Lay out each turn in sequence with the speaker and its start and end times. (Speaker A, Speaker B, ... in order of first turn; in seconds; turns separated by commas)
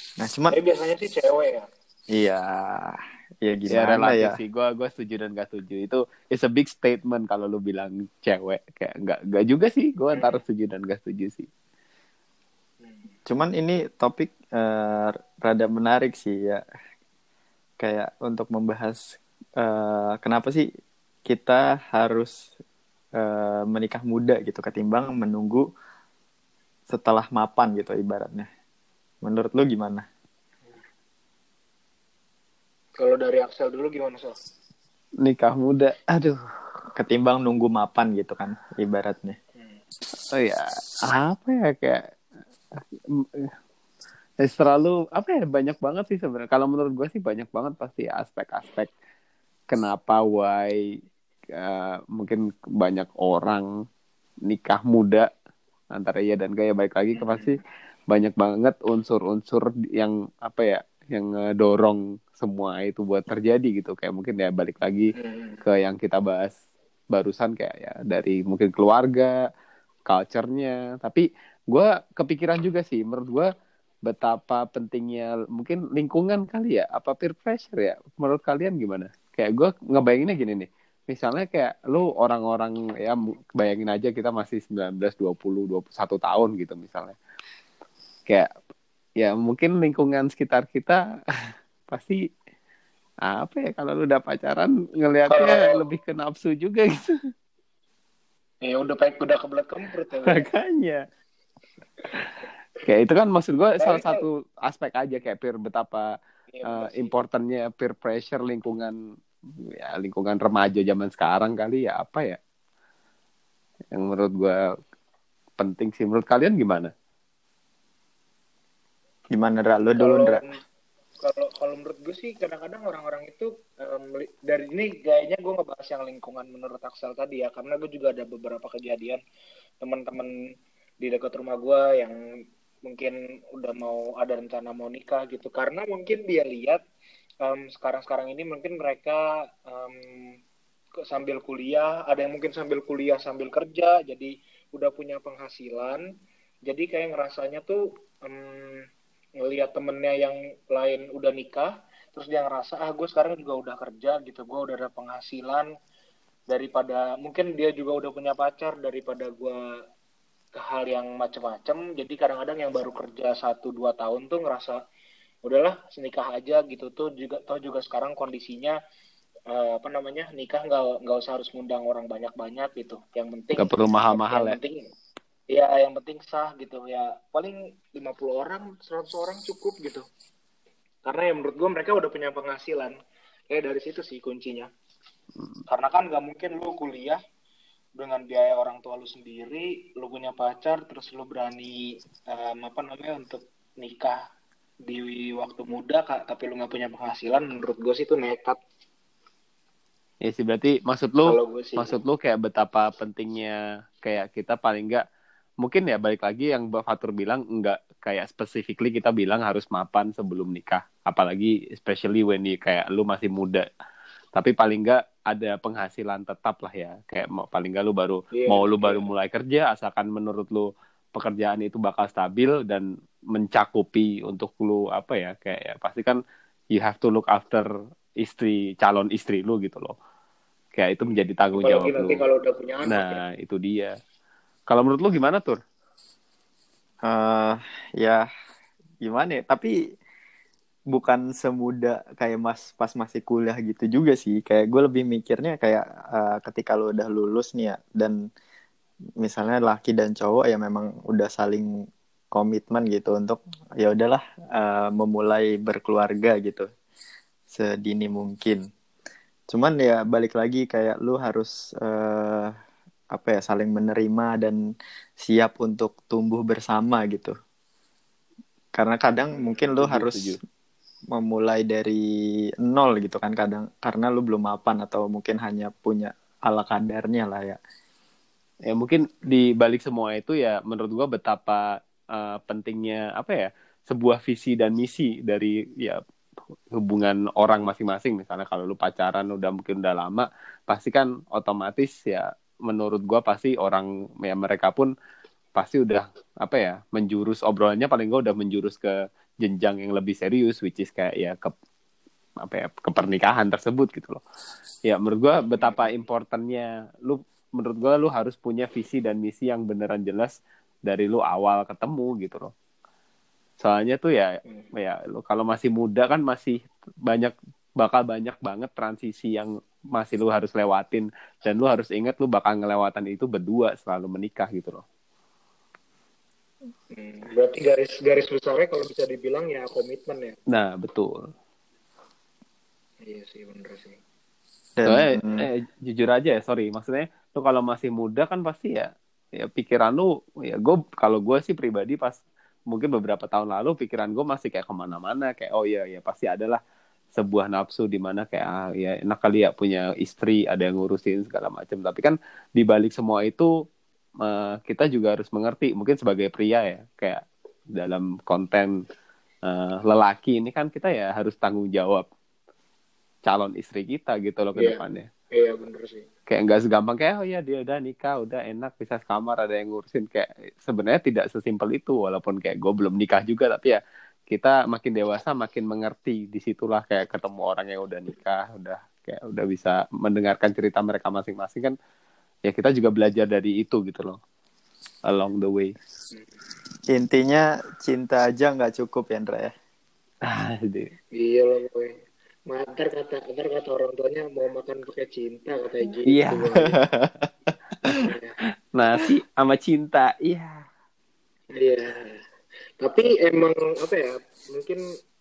Speaker A: 0.2-0.6, Speaker B: 0.5-1.6, Speaker A: 2.1-4.4, Speaker C: 3.7-11.5, Speaker B: 10.1-10.4, Speaker B: 12.8-13.1, Speaker A: 13.3-16.6, Speaker A: 17.8-19.0, Speaker A: 19.6-20.6, Speaker A: 21.3-22.3, Speaker A: 23.2-25.6, Speaker A: 26.9-28.5, Speaker A: 29.2-30.1, Speaker B: 33.0-34.3, Speaker C: 35.2-36.4, Speaker A: 37.0-39.4, Speaker C: 40.3-42.0, Speaker C: 44.4-48.9, Speaker C: 49.7-50.8, Speaker C: 51.5-53.7, Speaker C: 54.5-55.3, Speaker C: 55.9-57.6, Speaker B: 57.1-57.5, Speaker C: 58.1-65.1, Speaker B: 65.2-65.6, Speaker C: 65.6-66.5, Speaker C: 67.1-69.3, Speaker C: 70.1-73.5, Speaker C: 74.1-87.2, Speaker C: 89.2-91.0, Speaker C: 91.9-92.2, Speaker C: 93.3-97.1, Speaker B: 95.3-95.8, Speaker B: 98.6-100.5, Speaker C: 100.2-101.0, Speaker C: 102.1-106.1, Speaker B: 103.8-104.2, Speaker B: 106.5-107.1, Speaker C: 106.7-108.9, Speaker C: 109.8-112.4, Speaker C: 113.9-114.5, Speaker C: 115.6-116.9, Speaker A: 119.3-120.4, Speaker B: 120.0-120.5, Speaker B: 121.2-129.2, Speaker B: 129.8-130.3, Speaker B: 131.0-132.2, Speaker B: 132.8-136.8, Speaker B: 137.4-140.3, Speaker B: 141.0-146.0, Speaker B: 146.7-148.8, Speaker B: 149.4-155.7, Speaker B: 156.5-159.6, Speaker B: 160.5-164.8, Speaker B: 165.4-168.8, Speaker B: 169.5-174.8, Speaker C: 173.6-174.6, Speaker B: 175.5-180.0, Speaker B: 181.0-182.9, Speaker B: 183.5-184.7, Speaker B: 185.7-187.2, Speaker B: 188.0-191.8, Speaker B: 192.3-194.2, Speaker B: 194.8-198.6, Speaker C: 200.2-205.0, Speaker B: 201.2-202.0, Speaker C: 205.6-213.6, Speaker C: 214.3-226.2, Speaker B: 218.3-219.1, Speaker C: 226.7-227.7, Speaker C: 228.2-229.9, Speaker C: 230.8-232.2, Speaker B: 231.5-233.2, Speaker C: 232.8-233.9, Speaker C: 234.7-235.6, Speaker A: 237.1-238.3, Speaker A: 239.0-239.7, Speaker A: 240.9-248.2, Speaker A: 249.2-251.7, Speaker A: 252.3-256.7, Speaker A: 257.5-258.6, Speaker A: 259.5-262.5, Speaker A: 263.1-264.6, Speaker A: 265.2-267.3, Speaker A: 268.7-270.4, Speaker C: 269.7-270.4, Speaker A: 271.1-272.0, Speaker A: 272.6-277.6, Speaker C: 278.7-281.6, Speaker C: 282.1-286.0, Speaker C: 286.7-294.9, Speaker C: 295.6-301.5, Speaker C: 302.4-304.2, Speaker C: 304.9-310.3, Speaker B: 305.6-305.9, Speaker C: 310.9-312.5, Speaker C: 313.6-324.8, Speaker B: 326.9-330.4, Speaker C: 330.5-331.2, Speaker B: 333.0-334.0, Speaker A: 334.8-335.5, Speaker C: 334.8-342.2, Speaker C: 342.7-346.6, Speaker C: 347.2-353.5, Speaker C: 354.2-357.2, Speaker C: 357.8-358.7, Speaker C: 359.5-362.0, Speaker C: 363.3-365.1, Speaker B: 364.6-364.8, Speaker B: 365.3-366.1, Speaker C: 366.3-373.8, Speaker C: 374.3-381.7, Speaker C: 382.5-384.2, Speaker C: 385.1-385.7, Speaker A: 386.9-389.5, Speaker C: 390.3-390.9, Speaker B: 391.1-391.9, Speaker B: 392.5-396.7, Speaker C: 396.1-396.7, Speaker A: 396.8-397.3, Speaker B: 398.1-398.3, Speaker C: 398.7-400.6, Speaker B: 401.5-402.2, Speaker B: 402.8-404.8